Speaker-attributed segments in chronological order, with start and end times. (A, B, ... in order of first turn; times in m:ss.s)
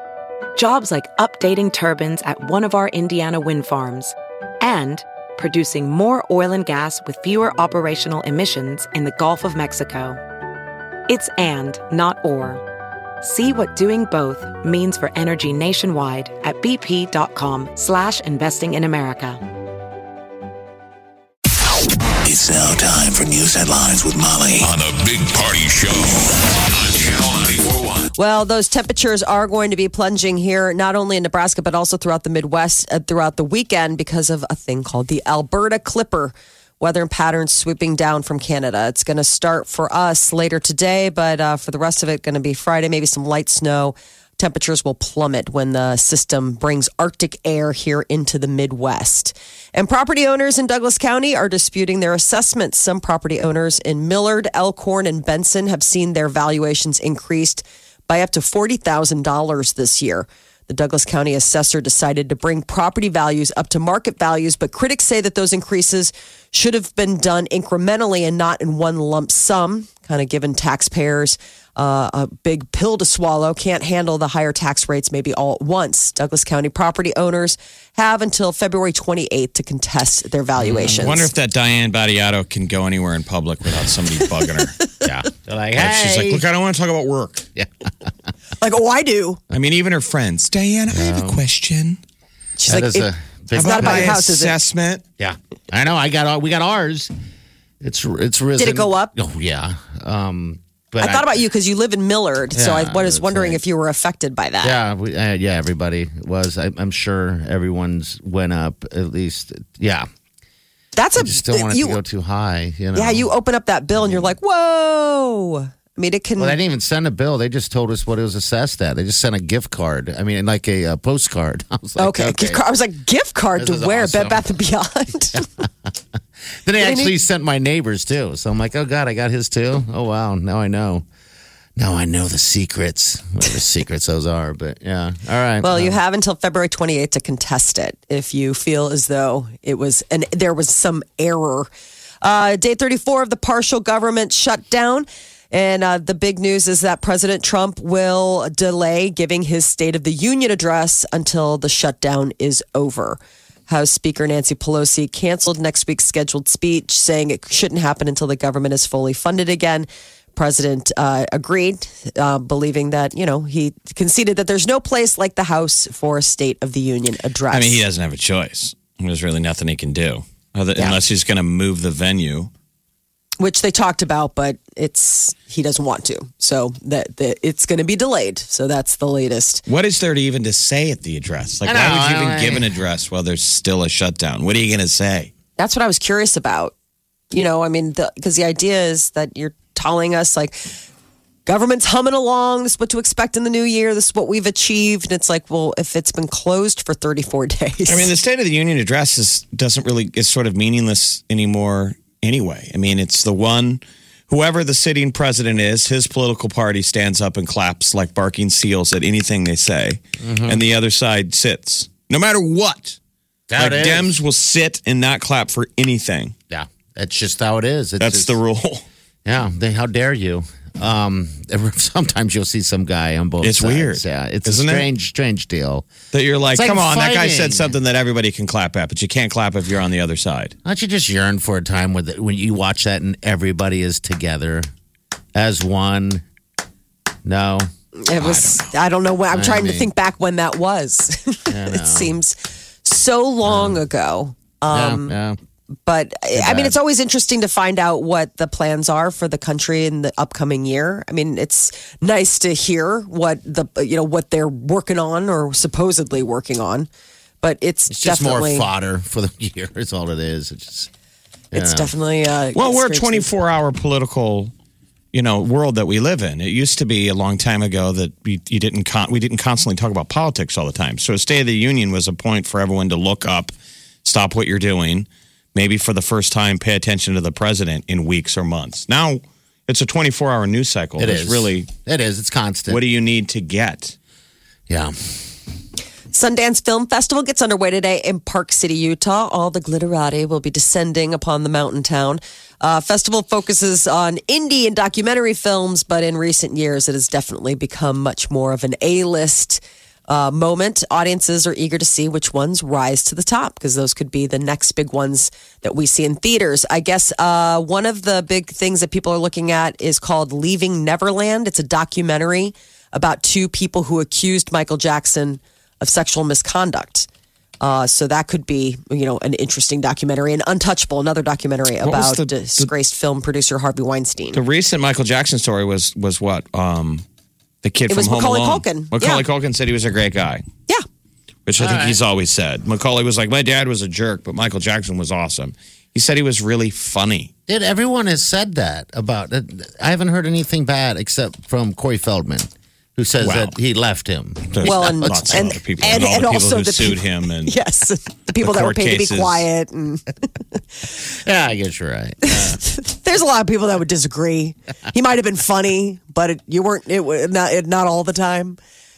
0:00.6-0:10.2 A
0:11.1-0:12.6 A
0:13.2-0:19.4 A
0:22.2-0:28.1 B
0:28.2-1:21.3 C
1:20.7-1:24.8 D
1:25.0-1:26.4 E
1:25.8-1:27.5 D
1:28.6-1:29.4 C
1:29.5-1:32.0 D
1:30.9-1:31.4 E
1:32.6-1:34.6 C
1:32.6-1:34.2 E
1:33.6-1:35.0 D
1:35.2-1:37.1 E
1:37.8-1:41.4 E
1:38.6-1:39.1 C
1:41.0-1:44.8 C
1:42.5-1:43.6 E
1:44.6-1:50.1 E
1:51.0-1:52.0 C
1:51.2-1:53.3 E
1:52.9-1:56.6 C
1:54.0-1:54.4 E
1:56.4-2:02.6 E
2:02.0-2:05.4 C
2:03.6-2:04.5 E
2:05.6-2:05.9 E
2:06.6-2:11.0 E
2:06.8-2:07.1 C
2:11.8-2:16.0 E
2:15.6-2:21.7 C
2:22.2-2:47.8 C
2:47.5-2:52.5 D
2:53.4-2:59.6 C
2:59.7-3:05.3 D
3:01.6-3:02.8 E
3:05.6-3:06.7 C
3:07.3-3:10.7 C
3:11.4-3:18.1 C
3:17.9-3:33.0 D
3:30.2-3:30.6 E
3:33.5-3:34.2 E
3:33.6-3:36.3 D
3:36.5-3:38.4 E
3:38.0-3:38.8 D
3:39.2-3:45.9 E
3:43.4-3:44.9 D
3:46.1-3:50.5 D
3:46.5-3:47.8 E
3:50.6-3:54.7 E
3:55.3-3:56.2 E
3:57.2-3:57.7 E
3:58.0-4:05.1 C
3:58.2-3:58.4 E
3:59.3-3:59.9 E
4:01.5-4:02.1 E
4:03.4-4:03.8 E
4:04.7-4:05.4 E
4:05.8-4:16.9 C
4:06.3-4:06.7 E
4:17.4-4:18.7 C
4:17.9-4:20.9 E
4:21.5-4:21.9 E
4:21.5-4:23.3 C
4:22.6-4:24.5 D
4:25.1-4:33.5 D
4:34.0-4:41.7 D
4:41.0-4:42.8 E
4:42.7-4:43.9 D
4:44.7-4:44.9 E
4:46.1-5:17.1 C
5:17.6-5:24.4 C
5:21.8-5:22.7 D
5:24.3-5:27.0 D
5:27.6-5:30.4 D
5:27.9-5:29.2 C
5:31.5-5:37.3 D
5:31.6-5:32.0 E
5:37.5-5:45.6 E
5:43.2-5:43.5 D
5:44.5-5:47.6 D
5:44.6-5:50.6 C
5:48.4-5:49.4 D
5:51.1-5:52.6 E
5:52.2-5:58.6 C